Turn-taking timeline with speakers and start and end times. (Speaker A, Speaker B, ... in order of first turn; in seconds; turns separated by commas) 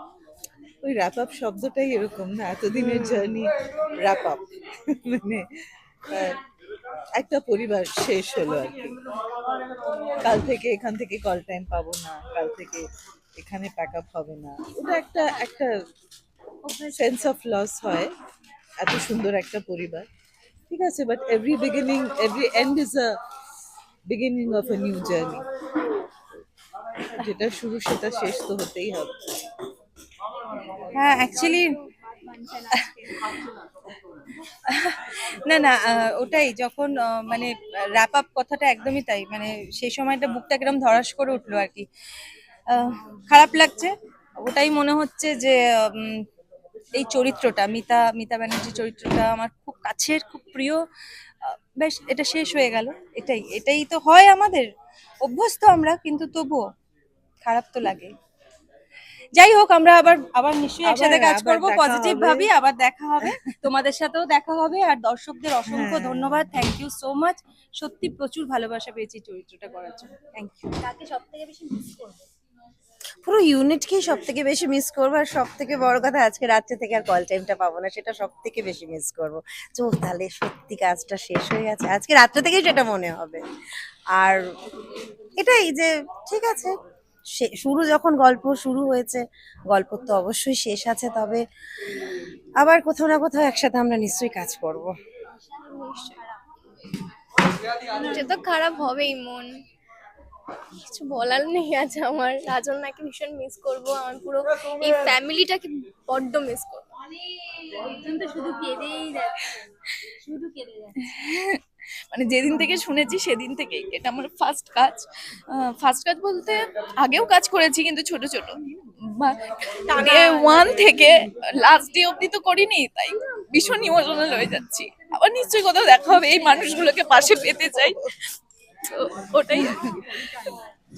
Speaker A: 0.8-5.5, Speaker B: 2.8-3.3, Speaker A: 6.1-6.4, Speaker A: 7.2-9.0, Speaker A: 10.2-12.8, Speaker A: 13.4-15.8, Speaker C: 16.7-17.0, Speaker A: 16.9-18.1, Speaker A: 18.8-20.1, Speaker A: 20.7-23.1, Speaker A: 24.1-25.5, Speaker A: 27.0-29.1, Speaker D: 30.9-31.7, Speaker C: 32.3-32.7, Speaker D: 34.7-41.9, Speaker D: 42.7-46.2, Speaker D: 47.0-50.8, Speaker D: 51.4-54.7, Speaker D: 55.2-56.6, Speaker D: 57.4-58.1, Speaker D: 59.4-70.7, Speaker A: 60.8-62.5, Speaker A: 63.2-63.5, Speaker A: 65.7-66.5, Speaker C: 70.7-72.3, Speaker B: 73.2-83.4, Speaker B: 84.1-84.4, Speaker B: 85.4-86.7, Speaker B: 87.4-91.4, Speaker B: 92.6-94.9, Speaker E: 95.5-96.2, Speaker E: 97.9-99.5, Speaker E: 100.8-106.9, Speaker C: 107.6-111.1, Speaker F: 111.1-111.6, Speaker F: 112.1-128.1, Speaker C: 120.0-120.5, Speaker F: 128.8-130.5